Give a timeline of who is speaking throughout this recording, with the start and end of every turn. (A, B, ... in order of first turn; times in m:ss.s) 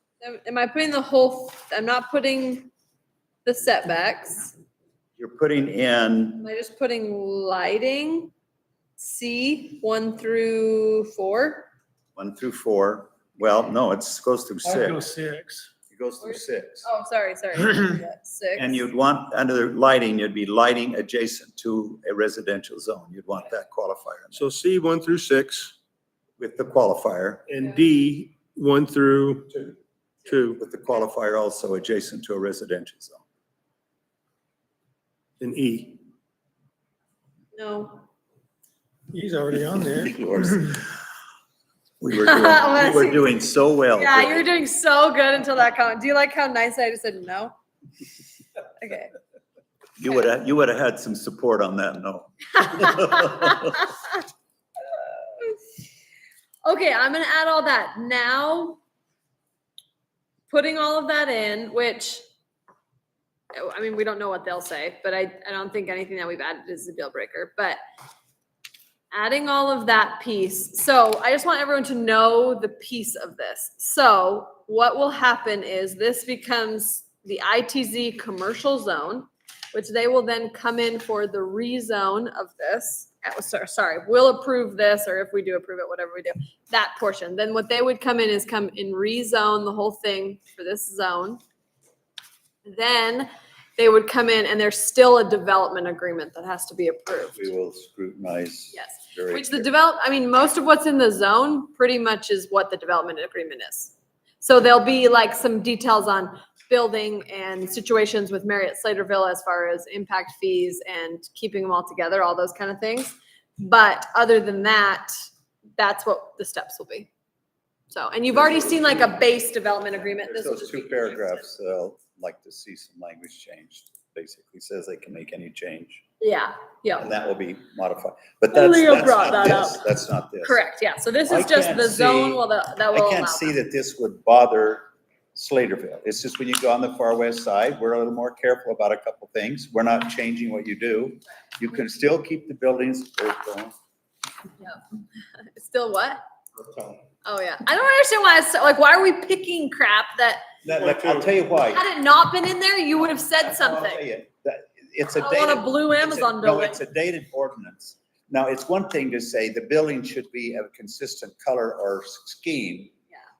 0:00.2-0:02.7 A
0:03.4-0:04.6 A
0:05.2-0:06.4 B
0:06.4-0:08.3 A
0:09.0-0:11.7 A
0:12.2-0:15.0 B
0:14.6-0:15.7 C
0:15.9-0:16.9 B
0:16.2-0:18.8 A
0:18.6-0:24.5 B
0:24.3-0:25.7 D
0:26.4-0:27.4 B
0:27.5-0:29.7 D
0:30.2-0:30.6 D
0:30.6-0:33.2 B
0:35.4-0:36.0 D
0:37.5-0:38.0 A
0:39.1-0:40.7 C
0:40.1-0:40.8 B
0:42.0-0:44.5 B
0:42.2-0:43.3 A
0:44.0-0:47.5 A
0:48.8-0:49.1 A
0:50.0-0:53.8 B
0:52.7-0:53.7 A
0:56.6-0:58.8 A
1:00.5-1:02.2 A
1:03.5-1:07.8 A
1:09.1-1:31.4 A
1:32.6-1:37.5 A
1:37.3-1:39.7 B
1:38.7-1:55.1 A
1:55.8-1:57.1 A
1:57.9-2:01.5 A
1:58.3-1:59.2 B
2:00.0-2:06.0 B
2:06.2-2:07.1 A
2:07.0-2:10.6 B
2:08.5-2:09.8 A
2:10.4-2:13.6 A
2:11.3-2:23.7 B
2:25.4-2:26.2 A
2:27.2-2:30.4 A
2:30.6-2:31.8 B
2:30.8-2:31.3 D
2:31.7-2:34.0 A
2:33.4-2:42.9 B
2:35.2-2:36.8 A